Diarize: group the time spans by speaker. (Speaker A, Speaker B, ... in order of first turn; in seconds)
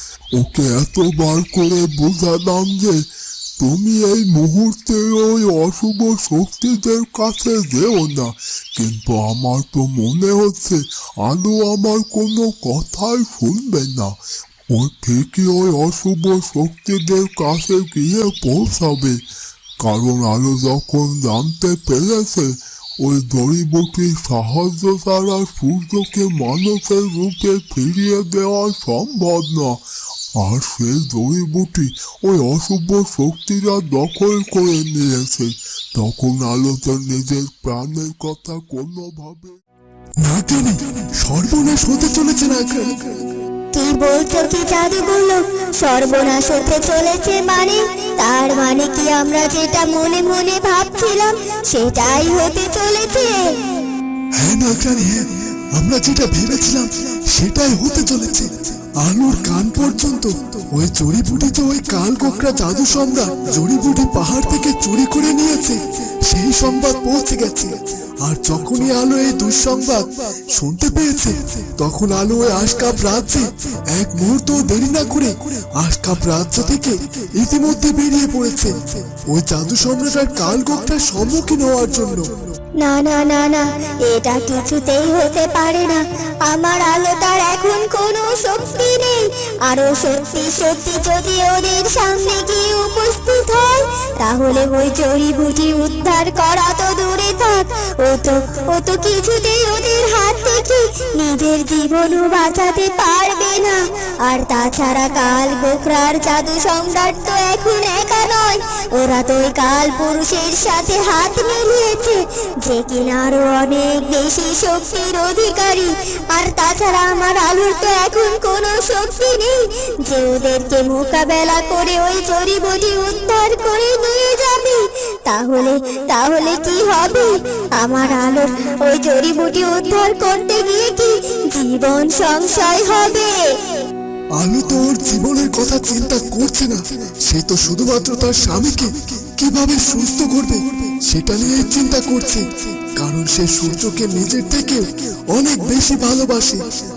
Speaker A: 0.3-3.0, 3.6-14.2, 14.7-19.2, 19.8-29.8, 30.4-39.6
Speaker B: 40.2-43.0, 54.4-55.2, 55.7-82.3, 134.3-146.6
Speaker C: 43.7-53.4, 82.8-133.3